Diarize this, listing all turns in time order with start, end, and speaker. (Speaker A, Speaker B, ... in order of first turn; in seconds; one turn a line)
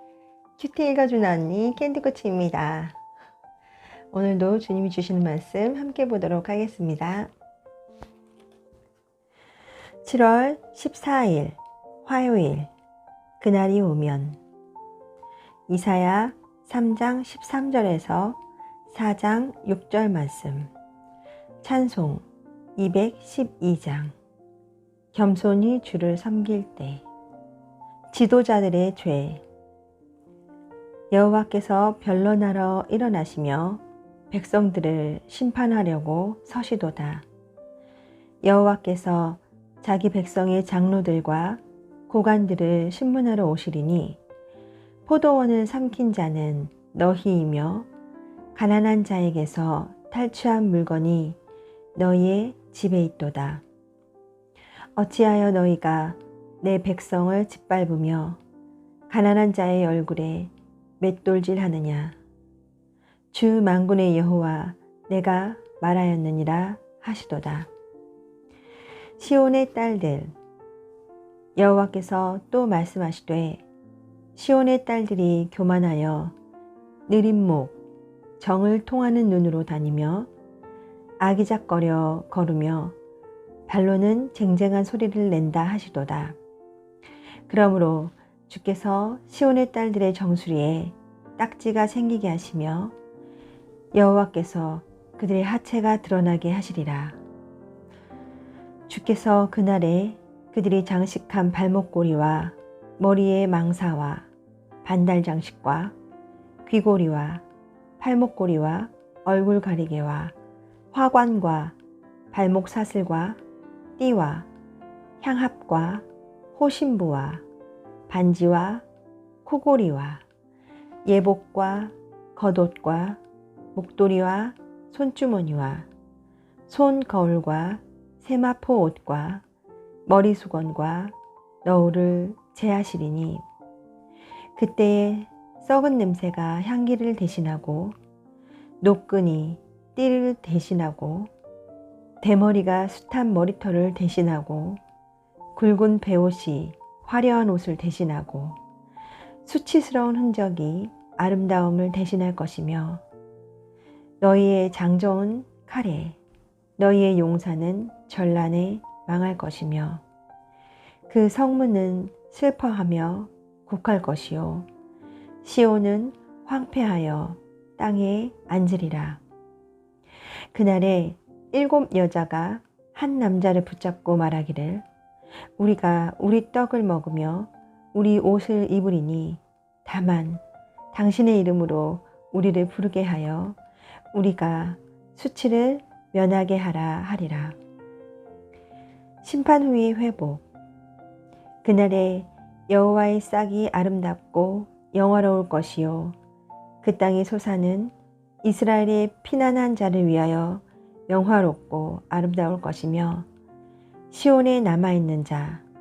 Speaker A: 0.6-3.0
Speaker A: 4.1-7.3
Speaker A: 10.0-12.7
Speaker A: 13.4-14.4
Speaker A: 15.7-20.7
Speaker A: 21.6-22.2
Speaker A: 22.8-24.1
Speaker A: 25.1-27.0
Speaker A: 28.1-29.4
Speaker A: 31.1-37.2
Speaker A: 38.4-44.2
Speaker A: 45.1-47.9
Speaker A: 48.5-51.4
Speaker A: 52.0-53.6
Speaker A: 55.0-58.4
Speaker A: 59.1-62.2
Speaker A: 63.3-67.7
Speaker A: 69.2-70.3
Speaker A: 71.6-73.6
Speaker A: 74.3-76.3
Speaker A: 77.1-77.8
Speaker A: 78.4-80.3
Speaker A: 81.2-83.0
Speaker A: 83.7-86.4
Speaker A: 87.5-92.9
Speaker A: 93.9-97.2
Speaker A: 98.9-104.3
Speaker A: 104.8-105.9
Speaker A: 106.7-107.4
Speaker A: 108.0-110.3
Speaker A: 110.9-111.8
Speaker A: 112.3-113.4
Speaker A: 114.0-114.5
Speaker A: 115.2-117.4
Speaker A: 118.1-118.8
Speaker A: 119.5-120.2
Speaker A: 121.0-123.2
Speaker A: 123.8-125.9
Speaker A: 126.7-129.4
Speaker A: 130.1-133.4
Speaker A: 134.6-138.0
Speaker A: 138.8-141.3
Speaker A: 142.2-144.8
Speaker A: 145.6-148.6
Speaker A: 149.4-153.0
Speaker A: 154.2-156.2
Speaker A: 156.8-160.0
Speaker A: 161.1-164.7
Speaker A: 165.4-169.2
Speaker A: 170.5-174.8
Speaker A: 175.6-180.4
Speaker A: 180.9-183.6
Speaker A: 184.1-187.6
Speaker A: 189.2-190.4
Speaker A: 191.6-196.2
Speaker A: 196.8-203.3
Speaker A: 204.1-205.6